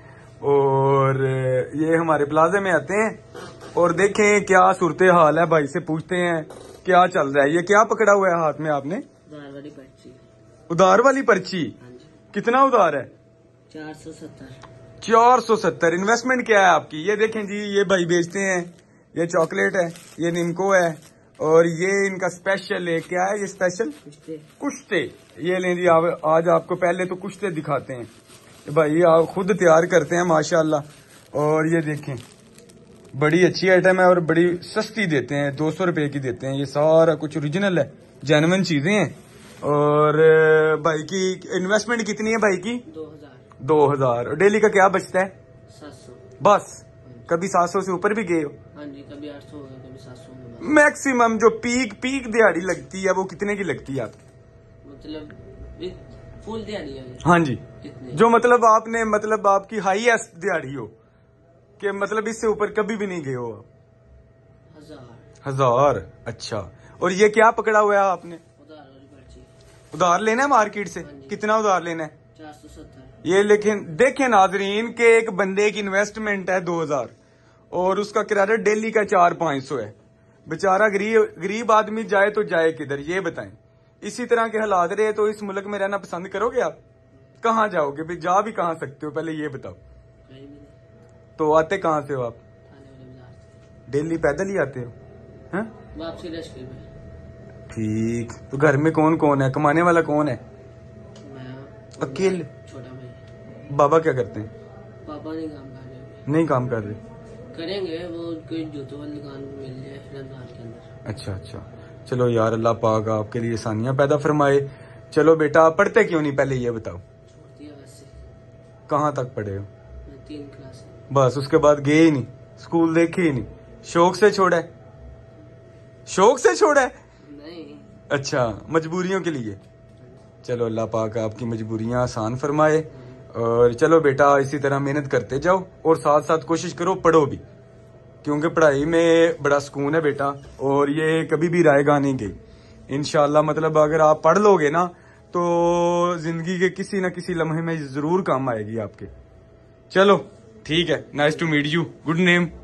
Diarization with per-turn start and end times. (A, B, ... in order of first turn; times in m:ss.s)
0:00.4-0:03.2 A
0:03.7-0:09.0 A
0:09.3-0:10.2 B
0:10.7-0:11.7 A
0:11.8-0:12.1 B
0:12.3-0:13.1 A
0:13.7-0:14.6 B
0:15.0-0:24.0 A
0:24.0-0:24.5 B
0:24.6-0:28.1 A
0:28.7-0:32.2 A
0:33.1-0:42.8 A
0:42.9-0:43.5 B
0:43.6-0:45.3 A
0:45.7-0:46.3 B
0:46.4-0:48.6 A
0:48.7-0:50.8 B
0:50.6-0:54.2 A
0:54.8-0:58.2 B
0:57.2-1:00.9 A
1:01.8-1:03.7 A
1:04.7-1:05.3 B
1:05.4-1:08.4 A
1:08.6-1:09.5 B
1:09.9-1:12.1 A
1:11.0-1:11.4 B
1:12.3-1:13.2 B
1:13.2-1:17.1 A
1:17.7-1:19.9 A
1:20.5-1:26.8 A
1:27.4-1:29.8 A
1:30.3-1:30.8 B
1:31.4-1:32.4 A
1:32.7-1:33.6 B
1:33.9-1:34.9 A
1:35.9-1:36.8 B
1:37.7-1:40.4 A
1:41.2-1:43.2 B
1:42.0-1:42.5 A
1:43.7-1:44.5 A
1:45.0-1:46.2 B
1:46.3-1:47.0 A
1:47.5-1:50.9 B
1:51.0-1:57.0 A
1:57.3-1:58.1 B
1:58.9-1:59.7 A
2:00.0-2:01.0 B
2:01.1-2:04.7 A
2:06.1-2:07.0 A
2:07.2-2:08.0 B
2:08.1-2:09.6 A
2:10.4-2:17.4 A
2:12.9-2:13.2 B
2:18.2-2:22.4 A
2:22.9-2:29.1 A
2:29.9-2:32.5 A